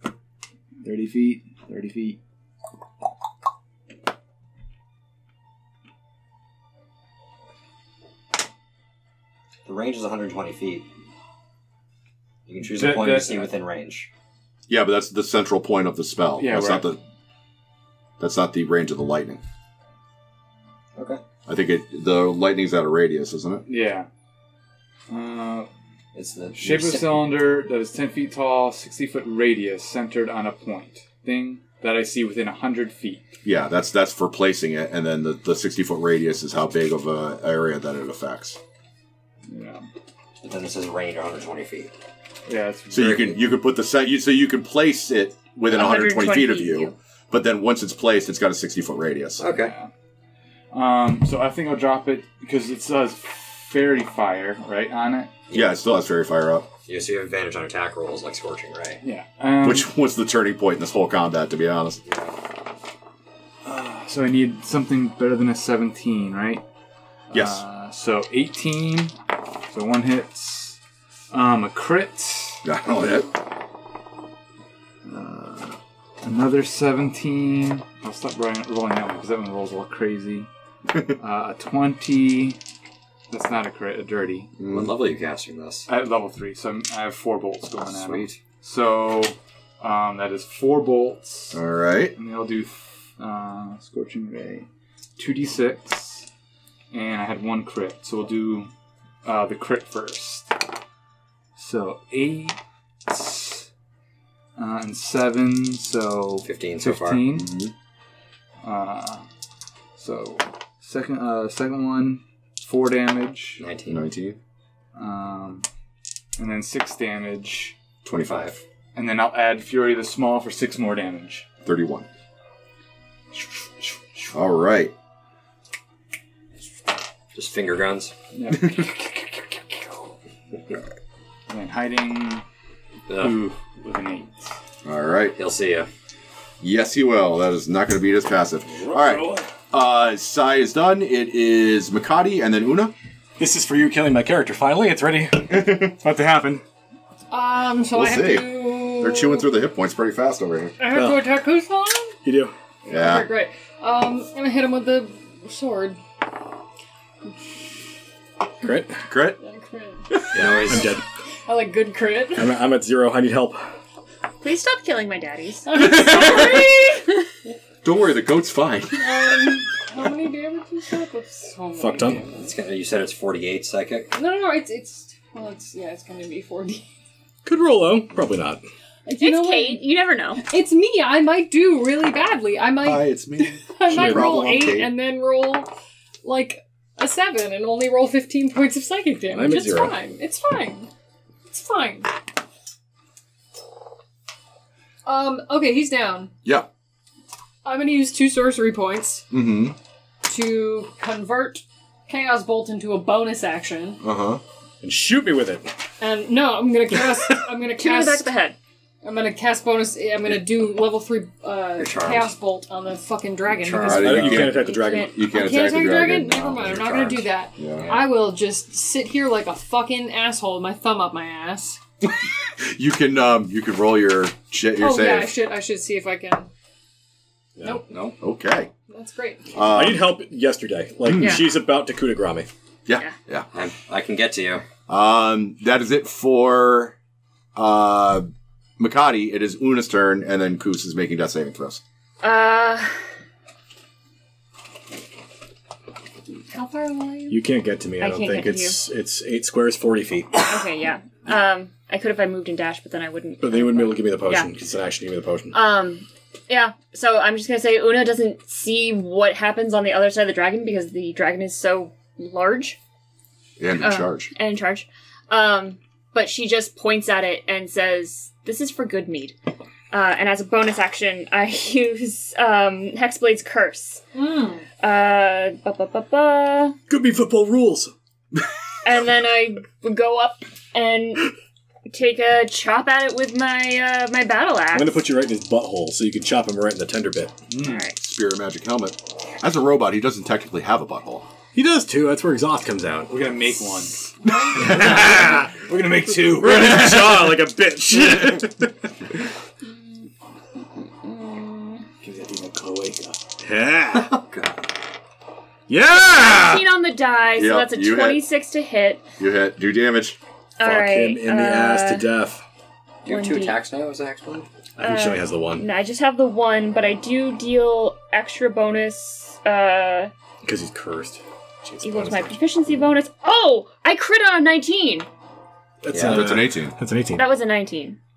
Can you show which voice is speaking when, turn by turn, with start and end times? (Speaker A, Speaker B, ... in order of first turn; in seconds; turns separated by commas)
Speaker A: 0.8-2.2, Speaker B: 9.7-10.9, Speaker B: 12.5-14.1, Speaker A: 12.7-13.5, Speaker C: 14.7-17.0, Speaker A: 16.4-16.9, Speaker C: 18.2-19.4, Speaker B: 21.0-21.2, Speaker C: 21.5-23.6, Speaker A: 23.7-24.1, Speaker A: 25.1-25.7, Speaker B: 26.1-27.3, Speaker A: 26.6-33.2, Speaker C: 33.4-38.6, Speaker A: 39.5-39.9, Speaker B: 40.4-41.9, Speaker A: 42.5-43.4, Speaker C: 42.9-49.4, Speaker D: 45.7-47.0, Speaker B: 49.4-49.7, Speaker A: 49.4-49.9, Speaker A: 50.7-55.3, Speaker B: 55.5-55.8, Speaker C: 55.5-56.7, Speaker B: 56.9-59.0, Speaker A: 59.0-59.9, Speaker C: 59.6-62.1, Speaker A: 63.6-66.6, Speaker A: 67.3-69.1, Speaker C: 67.3-67.6, Speaker A: 69.7-70.8, Speaker A: 71.3-72.7, Speaker C: 72.6-73.3, Speaker A: 75.0-80.5, Speaker A: 81.1-82.6, Speaker A: 83.3-84.5, Speaker C: 84.6-84.9, Speaker B: 84.7-85.9, Speaker A: 85.9-91.6, Speaker B: 87.9-88.4, Speaker C: 91.5-92.2, Speaker A: 92.2-96.3, Speaker A: 96.9-98.7, Speaker A: 99.2-100.5, Speaker A: 101.6-103.7, Speaker A: 104.6-107.5, Speaker B: 106.4-107.2, Speaker C: 107.3-107.7, Speaker A: 108.6-109.3, Speaker A: 110.0-113.7, Speaker B: 113.6-114.0, Speaker C: 113.9-114.4, Speaker A: 115.0-115.7, Speaker A: 116.4-117.8, Speaker C: 118.0-118.6, Speaker B: 118.2-118.6, Speaker A: 119.0-121.5, Speaker C: 121.7-122.1, Speaker C: 124.3-124.9, Speaker B: 127.3-128.1, Speaker A: 128.3-129.9, Speaker A: 131.5-132.4, Speaker B: 133.1-133.4, Speaker A: 133.1-134.5, Speaker C: 134.8-135.3, Speaker B: 135.4-135.9, Speaker C: 136.6-142.9, Speaker E: 138.7-139.5, Speaker E: 143.4-146.6, Speaker C: 145.5-146.0, Speaker F: 147.3-149.5, Speaker C: 147.9-150.8, Speaker F: 150.8-152.2, Speaker E: 150.9-151.3, Speaker E: 152.2-152.5, Speaker F: 152.8-156.0, Speaker C: 152.9-153.3, Speaker E: 158.6-159.0, Speaker C: 159.1-159.4, Speaker F: 159.4-160.9, Speaker E: 160.1-161.0, Speaker B: 160.3-161.0, Speaker F: 161.5-162.6, Speaker E: 162.3-163.6, Speaker D: 164.4-166.0, Speaker F: 165.7-167.1, Speaker C: 165.7-166.7, Speaker C: 167.8-169.6, Speaker F: 168.9-172.3, Speaker E: 171.8-172.3, Speaker B: 172.3-174.1, Speaker F: 174.1-176.9, Speaker E: 177.4-178.6, Speaker F: 179.1-185.7, Speaker D: 179.2-180.4, Speaker C: 182.8-185.0, Speaker E: 183.9-184.7, Speaker F: 186.2-190.9, Speaker E: 189.3-190.0, Speaker F: 191.5-192.1, Speaker F: 195.1-196.3, Speaker F: 197.6-199.3, Speaker C: 199.3-199.8, Speaker F: 200.2-204.0, Speaker C: 204.0-204.4, Speaker E: 204.8-205.7, Speaker F: 206.0-208.3, Speaker D: 207.8-208.6, Speaker F: 209.0-214.3, Speaker B: 211.8-212.3, Speaker B: 213.5-214.4, Speaker C: 213.8-217.9, Speaker E: 213.9-215.2, Speaker D: 214.5-215.2, Speaker F: 215.3-221.8, Speaker B: 217.8-218.1, Speaker C: 222.0-225.4, Speaker F: 224.8-226.5, Speaker E: 227.6-227.8, Speaker B: 227.9-228.2, Speaker C: 228.2-228.7, Speaker F: 228.9-229.6, Speaker C: 229.5-230.1, Speaker E: 229.7-232.5, Speaker C: 231.1-231.4, Speaker D: 231.2-231.5, Speaker C: 232.9-233.5, Speaker B: 233.5-234.7, Speaker C: 234.9-236.9, Speaker C: 237.6-241.8, Speaker D: 242.2-243.0, Speaker F: 246.5-247.4, Speaker E: 247.3-250.7, Speaker D: 248.0-248.8, Speaker D: 250.5-254.5, Speaker E: 253.4-255.6, Speaker D: 255.5-262.8, Speaker C: 263.6-264.3, Speaker D: 263.8-269.4, Speaker D: 269.9-274.0, Speaker F: 274.1-274.7, Speaker D: 274.8-276.8, Speaker E: 276.9-277.9, Speaker D: 278.9-281.3, Speaker D: 281.9-285.0, Speaker E: 284.7-287.3, Speaker A: 287.5-287.8, Speaker D: 287.6-288.0, Speaker C: 288.0-291.3, Speaker E: 291.5-293.3, Speaker A: 293.1-297.2, Speaker E: 294.6-295.5, Speaker E: 296.3-298.7, Speaker D: 299.6-300.1, Speaker D: 300.8-301.9, Speaker A: 302.0-303.2, Speaker E: 303.4-304.2, Speaker B: 303.9-304.7, Speaker E: 305.7-306.7, Speaker D: 306.2-309.1, Speaker C: 307.4-308.2, Speaker C: 309.2-310.2, Speaker D: 310.6-312.1, Speaker E: 310.6-312.4, Speaker B: 313.1-314.5, Speaker D: 313.1-313.6, Speaker E: 314.8-315.7, Speaker D: 314.8-320.1, Speaker E: 320.4-322.4, Speaker D: 321.8-325.1, Speaker E: 325.8-327.3, Speaker B: 325.9-326.4, Speaker C: 326.0-326.8, Speaker D: 327.2-328.0